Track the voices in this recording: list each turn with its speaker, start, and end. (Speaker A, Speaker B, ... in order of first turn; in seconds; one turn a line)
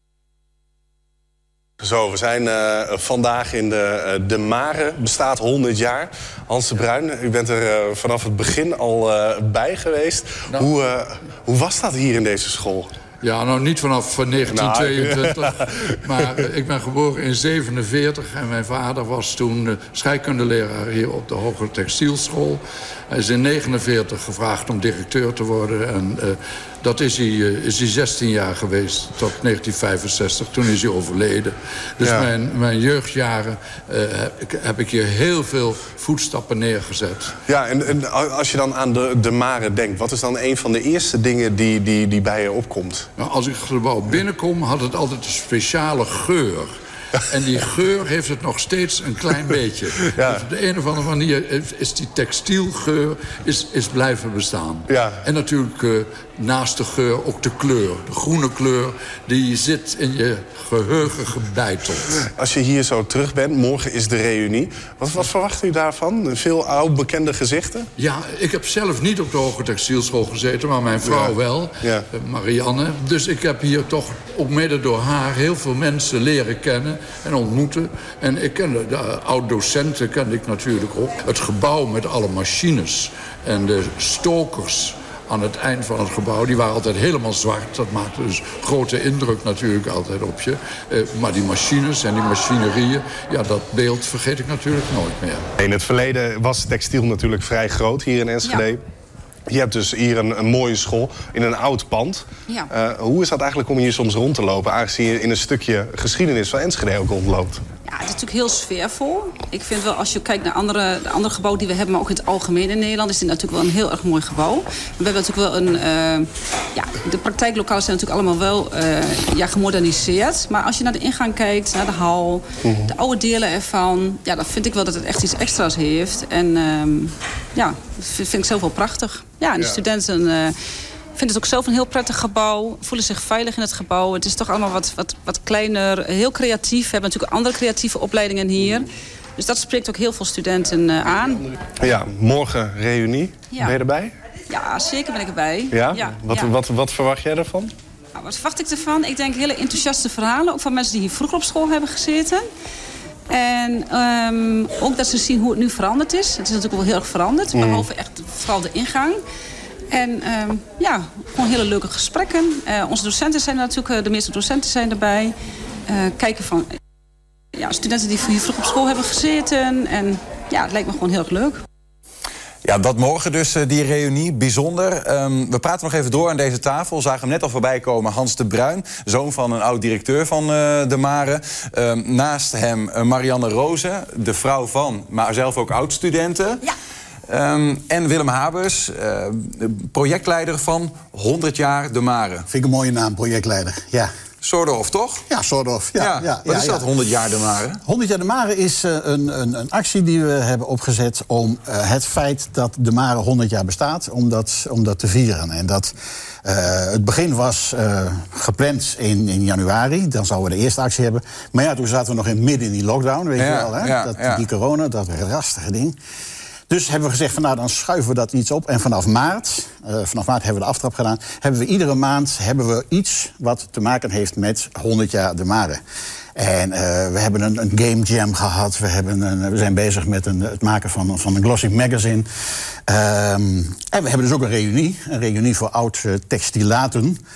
Speaker A: 1.8-12.9
Speaker B: 13.2-37.4
Speaker A: 14.4-16.3
Speaker A: 32.0-32.3
Speaker A: 37.5-43.1
Speaker B: 43.2-46.7
Speaker B: 47.3-62.2
Speaker A: 50.0-50.5
Speaker A: 54.9-55.2
Speaker A: 62.2-67.9
Speaker B: 68.0-95.5
Speaker A: 71.0-72.1
Speaker A: 95.6-98.8
Speaker A: 99.5-107.6
Speaker C: 107.9-130.5
Speaker A: 122.6-122.9
Speaker C: 131.2-141.5
Speaker A: 141.8-144.1
Speaker C: 143.5-143.8
Speaker C: 144.5-146.6
Speaker A: 145.7-147.7
Speaker C: 148.2-152.5
Speaker C: 153.3-159.2
Speaker A: 157.5-157.9
Speaker C: 159.9-165.3
Speaker C: 165.9-166.7
Speaker C: 167.6-171.6
Speaker D: 172.6-186.7
Speaker D: 187.3-192.5
Speaker E: 192.5-194.1
Speaker D: 194.4-195.2
Speaker E: 195.3-196.9
Speaker D: 196.0-197.8
Speaker E: 197.8-216.0
Speaker D: 213.4-214.4
Speaker E: 216.7-225.8
Speaker E: 226.4-232.3
Speaker E: 232.9-237.2